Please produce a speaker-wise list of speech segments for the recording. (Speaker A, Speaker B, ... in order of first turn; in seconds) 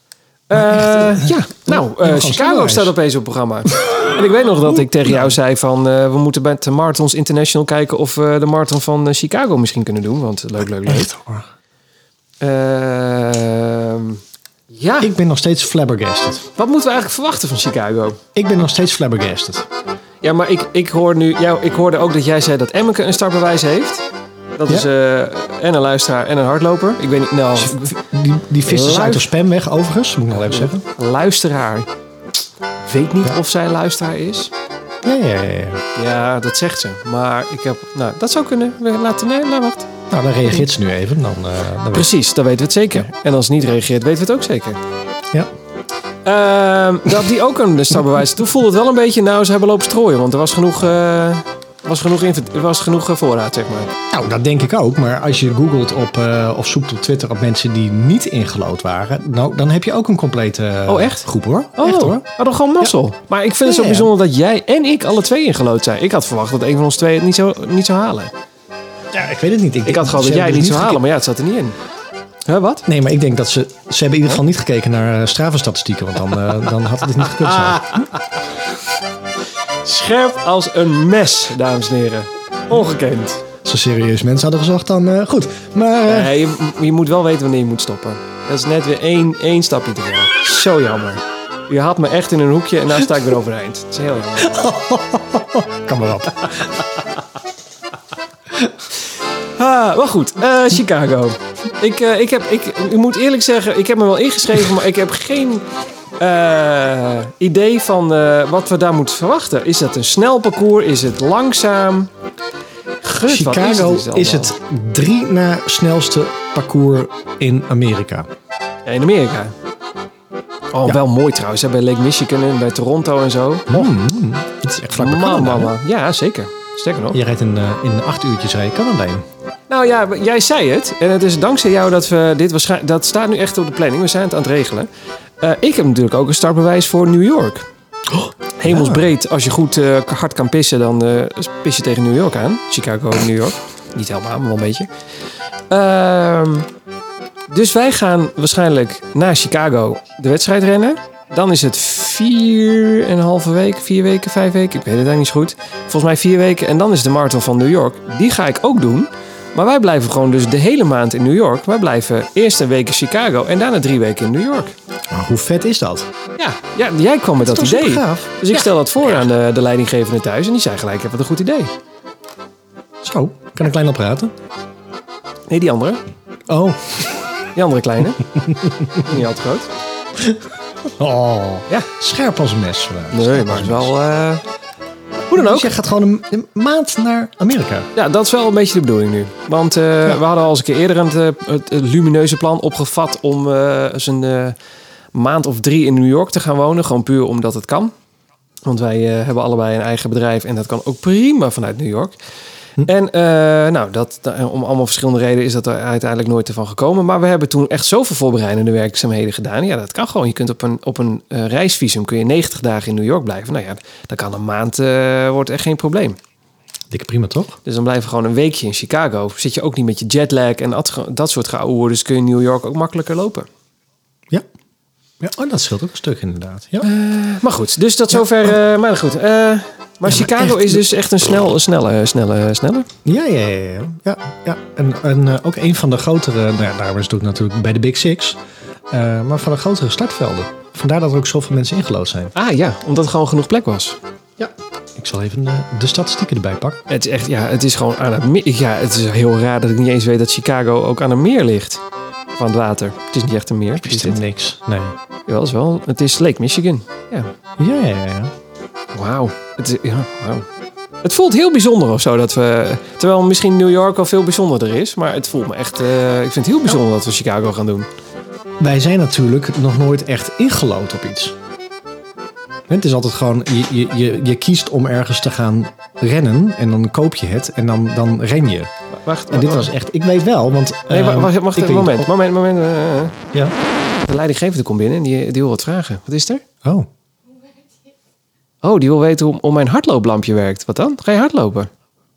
Speaker A: 0.5-11.1, 12.4-15.1, 16.6-18.2, 20.2-24.0, 24.6-28.0, 28.6-29.3, 30.4-31.9, 32.8-34.5, 35.9-39.9, 41.9-44.8, 46.2-53.9, 60.9-68.3, 69.8-71.8, 72.5-72.8, 77.5-78.1, 79.8-83.4, 86.0-94.6, 99.5-105.7, 106.2-112.1, 113.0-114.5, 118.8-119.5, 120.7-123.9, 124.9-127.2, 129.7-134.9, 135.4-137.7, 138.6-144.9, 145.7-146.7, 147.5-164.7, 166.4-171.7, 175.5-176.0, 177.5-178.3, 178.9-179.7, 183.1-184.4, 185.3-185.7, 187.9-194.6, 195.1-197.9, 198.7-202.2, 202.8-216.2, 217.6-223.5, 226.8-232.9, 242.3-244.0, 246.9-251.8, 252.3-254.2, 255.3-257.3, 258.9-260.5, 261.0-267.9, 278.9-279.7, 280.9-283.2, 284.1-286.4, 288.6-291.7
Speaker B: 0.5-2.9, 3.7-4.0, 5.0-5.3, 10.8-11.5, 15.0-16.5, 18.3-19.7, 27.6-30.8, 35.0-35.8, 40.1-42.1, 54.1-62.2, 63.6-64.1, 69.1-71.0, 72.8-78.1, 83.6-86.3, 94.4-96.8, 113.2-118.3, 123.7-125.7, 127.1-129.2, 138.1-139.1, 165.1-166.1, 167.4-168.7, 173.0-174.3, 176.5-177.2, 178.3-179.0, 180.2-183.9, 185.3-187.9, 216.9-217.6, 225.2-226.9, 228.1-228.5, 230.1-230.8, 233.0-238.4, 238.9-242.3, 244.4-246.8, 253.8-254.9, 257.6-258.3, 268.6-271.4, 272.7-278.7, 279.3-282.1